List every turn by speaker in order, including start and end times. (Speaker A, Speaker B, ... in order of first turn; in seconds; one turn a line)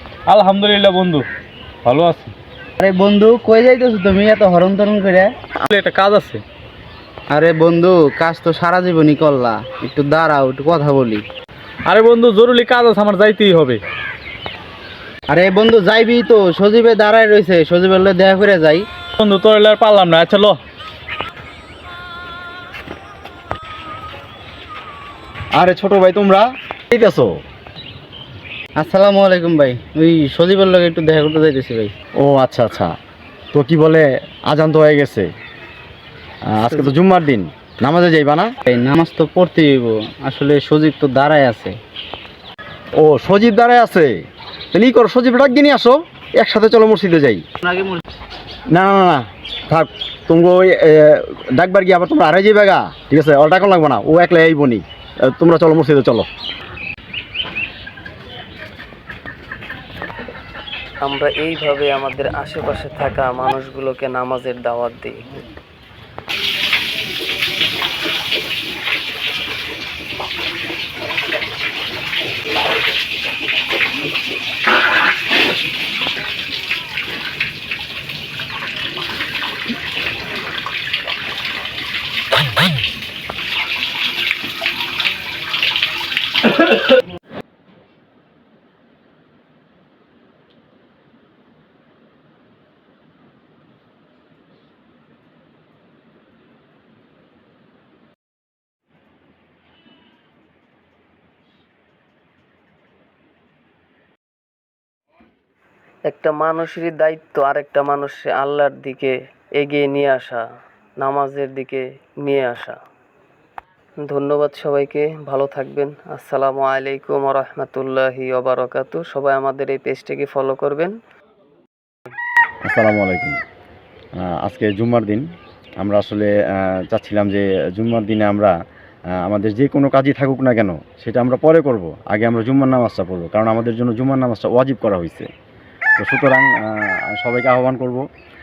Speaker A: 0.3-1.2
Speaker A: 1.8-2.3
Speaker B: 2.8-5.3
Speaker A: 5.6-6.4
Speaker B: 7.3-11.2
Speaker A: 11.9-13.8
Speaker B: 15.3-18.9
Speaker A: 19.2-20.6
Speaker C: 25.5-27.4
Speaker B: 28.8-31.9
Speaker C: 32.2-32.9
Speaker C: 33.5-35.3
Speaker C: 36.5-38.5
Speaker B: 38.7-41.8
Speaker C: 43.0-44.1
Speaker C: 44.7-47.5
Speaker B: 47.6-48.0
Speaker C: 48.7-56.3
Speaker D: 61.0-65.4
Speaker D: 106.1-110.4
Speaker D: 111.0-112.8
Speaker D: 114.0-120.9
Speaker C: 122.6-123.4
Speaker C: 124.2-125.3
Speaker C: 125.8-128.5
Speaker C: 129.2-135.3
Speaker C: 136.0-138.0